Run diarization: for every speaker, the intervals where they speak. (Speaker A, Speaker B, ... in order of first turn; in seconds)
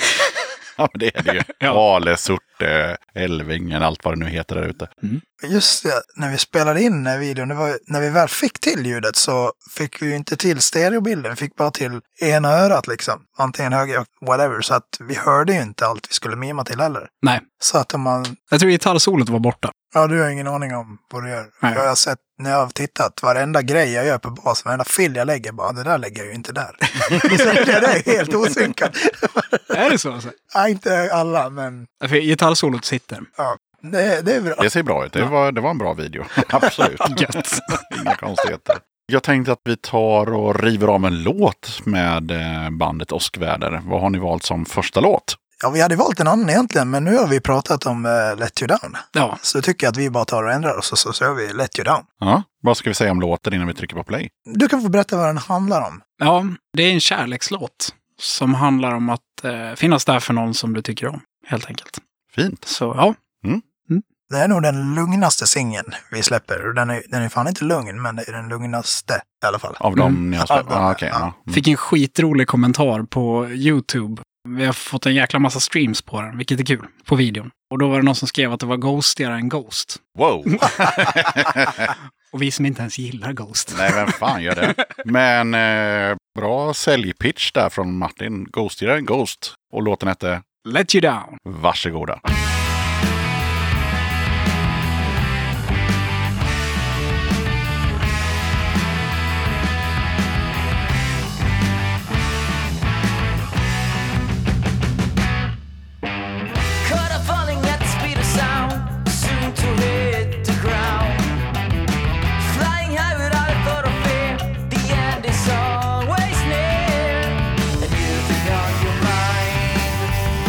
Speaker A: 0.8-4.9, 34.6-45.4, 52.2-54.3, 62.3-62.6, 69.8-71.6, 80.2-81.9, 83.7-90.4, 91.4-92.2
Speaker B: 1.5-1.8, 18.5-19.7, 26.9-27.6, 29.7-30.3, 32.0-33.3, 37.0-37.9, 49.1-49.4, 56.2-62.0, 62.6-63.1, 71.5-80.0, 80.5-81.2, 82.3-84.2, 90.6-91.4
Speaker C: 5.4-18.4, 19.9-29.9, 30.5-31.9, 33.4-34.7, 45.6-52.0, 54.5-56.0, 64.3-69.8, 70.4-71.2
Speaker D: 106.8-111.4, 112.4-120.2